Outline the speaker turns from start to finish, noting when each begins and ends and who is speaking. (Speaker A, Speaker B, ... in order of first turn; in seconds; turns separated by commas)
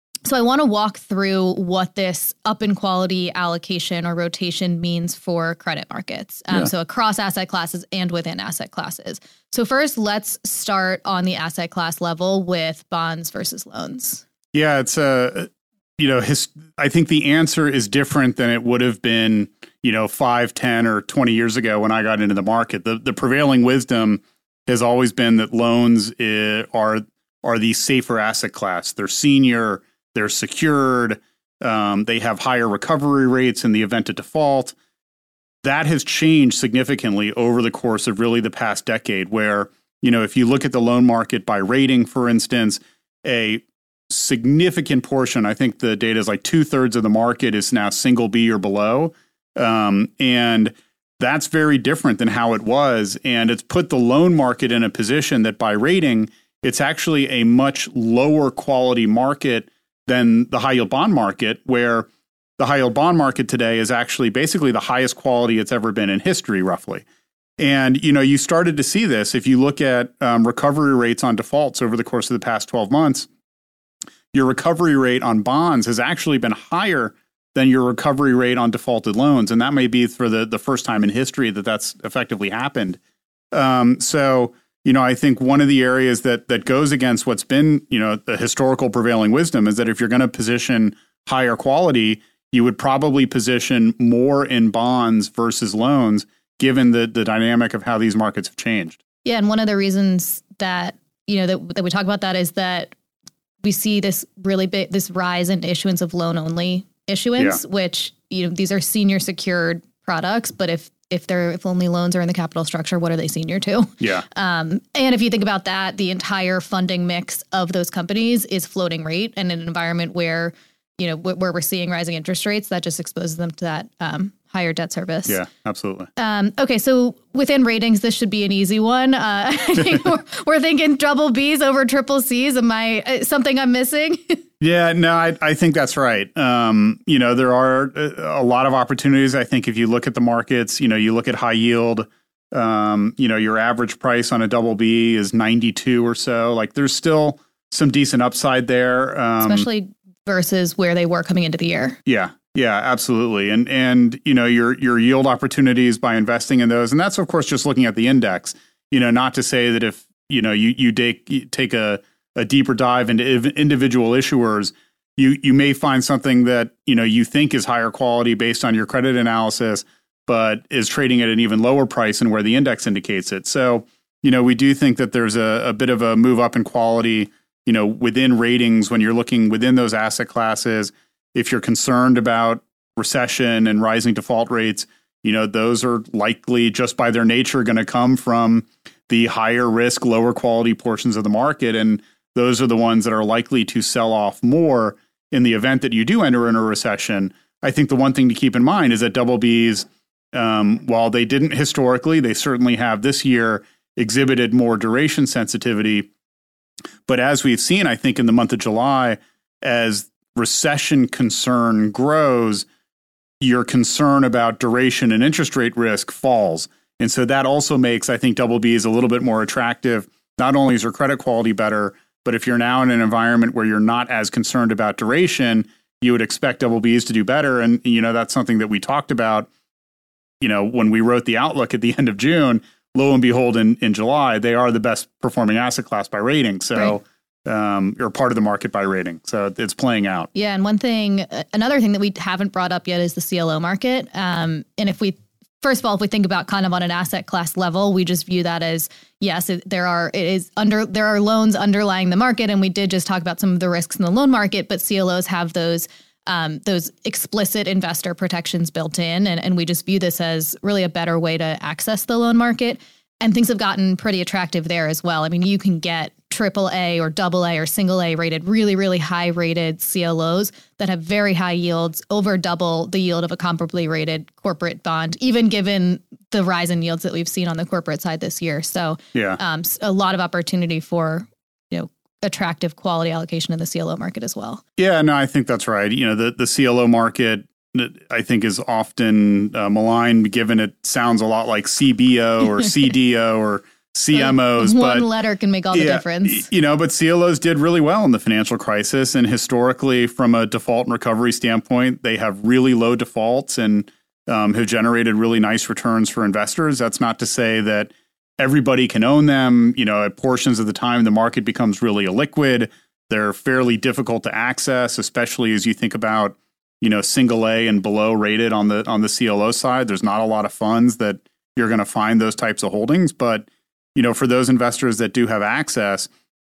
Speaker A: 0.2-14.2, Speaker B: 14.5-34.7, Speaker B: 35.6-67.0, Speaker B: 67.6-73.3, Speaker B: 74.3-83.0, Speaker B: 83.5-99.0, Speaker A: 99.2-102.9, Speaker A: 103.6-125.4, Speaker B: 114.0-114.2, Speaker B: 125.2-126.1, Speaker A: 126.2-134.4, Speaker B: 134.6-149.7, Speaker A: 149.4-152.0, Speaker B: 152.1-206.1, Speaker B: 207.1-212.7, Speaker B: 213.4-229.5, Speaker B: 230.4-240.3, Speaker A: 240.3-284.6, Speaker B: 279.1-279.4, Speaker B: 284.8-295.1, Speaker A: 294.1-296.5, Speaker B: 295.7-326.1